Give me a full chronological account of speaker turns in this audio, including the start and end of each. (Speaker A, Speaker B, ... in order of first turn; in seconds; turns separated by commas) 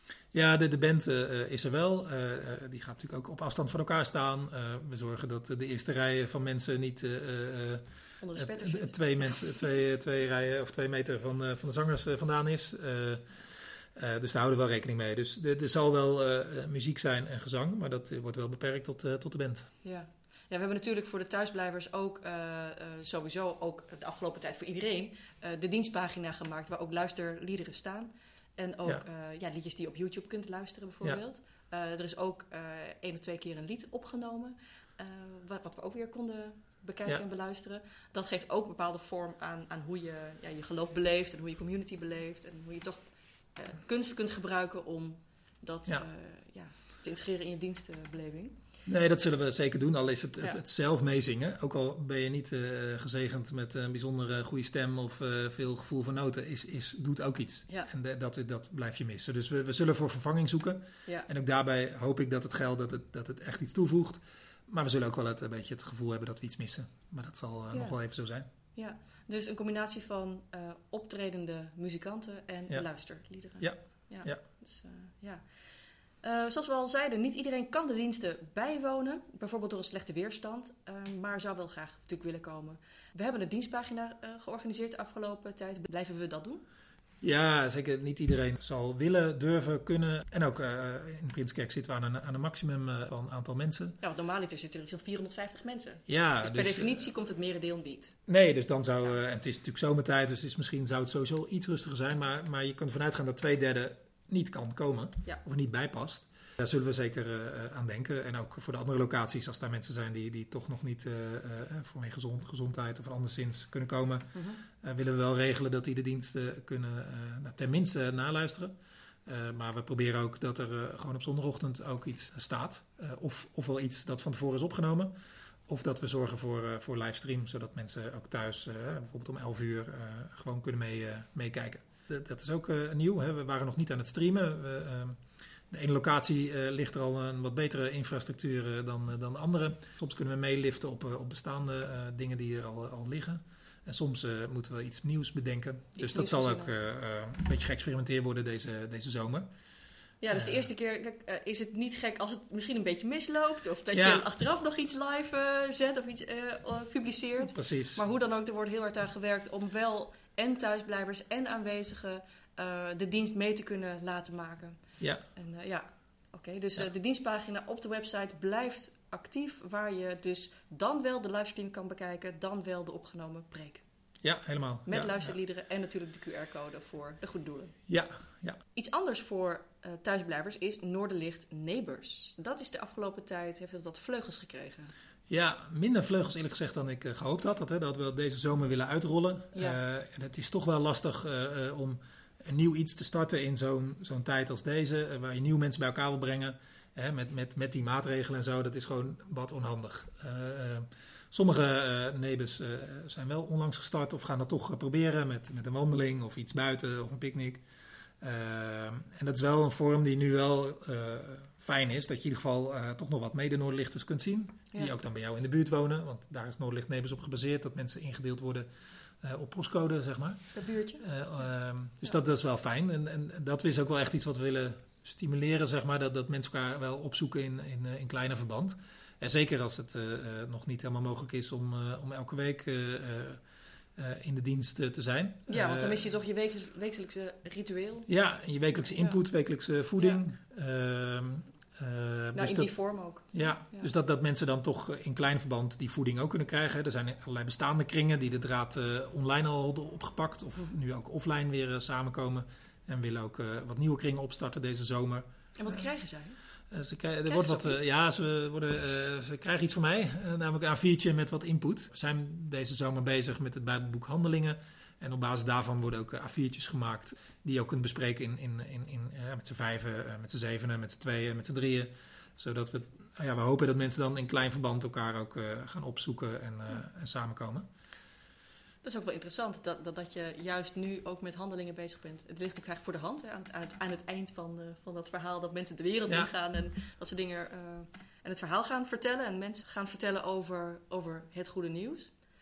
Speaker A: 0.3-7.8, Speaker B: 8.2-9.3, Speaker A: 8.3-13.3, Speaker A: 13.9-19.7, Speaker B: 19.8-48.5, Speaker A: 48.9-68.5, Speaker B: 67.7-68.0, Speaker B: 68.7-75.5, Speaker A: 73.6-74.4, Speaker B: 76.2-86.6, Speaker A: 87.2-94.0, Speaker B: 94.0-98.2, Speaker A: 96.1-97.1, Speaker A: 98.3-118.7, Speaker B: 114.3-114.6, Speaker A: 119.2-125.1, Speaker A: 125.7-149.5, Speaker B: 145.9-146.7, Speaker B: 150.2-164.8, Speaker A: 150.3-150.7, Speaker A: 153.9-154.2, Speaker A: 157.5-158.0, Speaker B: 165.3-173.8, Speaker A: 174.2-175.3, Speaker B: 174.9-177.8, Speaker A: 177.9-178.6, Speaker B: 178.7-184.9, Speaker A: 185.3-207.6, Speaker B: 189.5-189.8, Speaker A: 208.2-218.7, Speaker A: 219.2-220.4, Speaker B: 220.5-221.0, Speaker A: 221.0-233.4, Speaker A: 233.9-236.1, Speaker B: 235.5-238.1, Speaker A: 238.1-242.7, Speaker B: 238.9-239.2, Speaker B: 242.3-243.9, Speaker A: 243.3-255.8, Speaker B: 255.6-256.4, Speaker A: 256.7-277.6, Speaker B: 257.3-257.8, Speaker B: 278.8-292.1